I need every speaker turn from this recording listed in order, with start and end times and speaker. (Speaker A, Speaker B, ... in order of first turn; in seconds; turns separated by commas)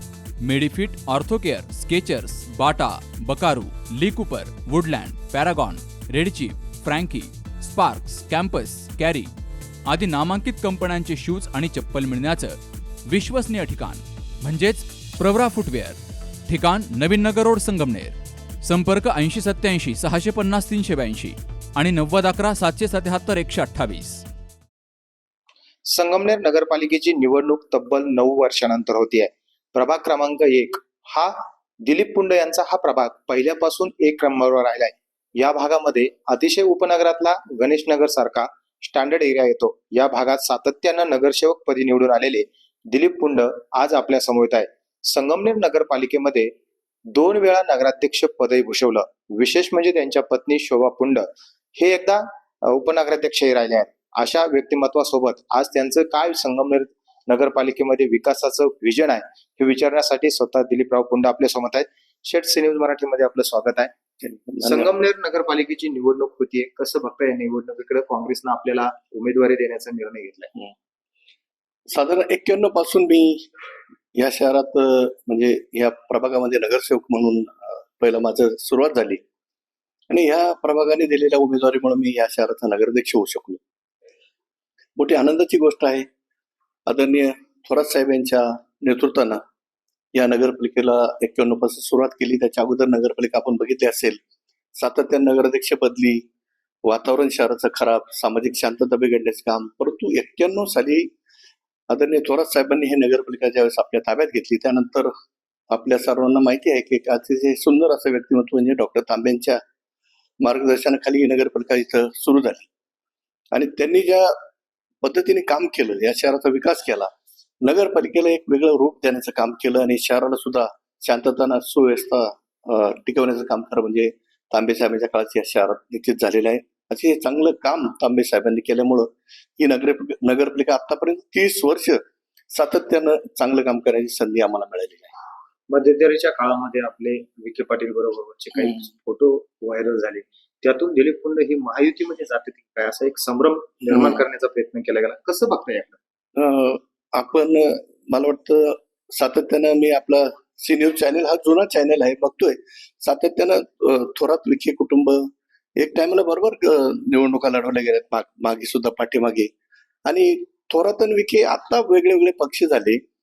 Speaker A: 0.4-9.3, Speaker A: 9.9-24.2, Speaker B: 25.9-46.5, Speaker B: 47.1-63.9, Speaker C: 64.2-64.9, Speaker B: 64.6-70.5, Speaker C: 71.9-73.5, Speaker C: 74.2-79.2, Speaker C: 80.1-83.6, Speaker C: 85.0-86.1, Speaker C: 86.9-89.4, Speaker C: 90.1-94.2, Speaker C: 94.8-96.2, Speaker C: 96.8-101.1, Speaker C: 101.9-105.1, Speaker C: 105.7-109.6, Speaker C: 110.4-112.7, Speaker C: 113.5-114.3, Speaker C: 115.0-117.1, Speaker C: 117.6-132.0, Speaker C: 132.5-135.1, Speaker B: 135.7-146.0, Speaker C: 146.4-159.5, Speaker C: 160.1-163.0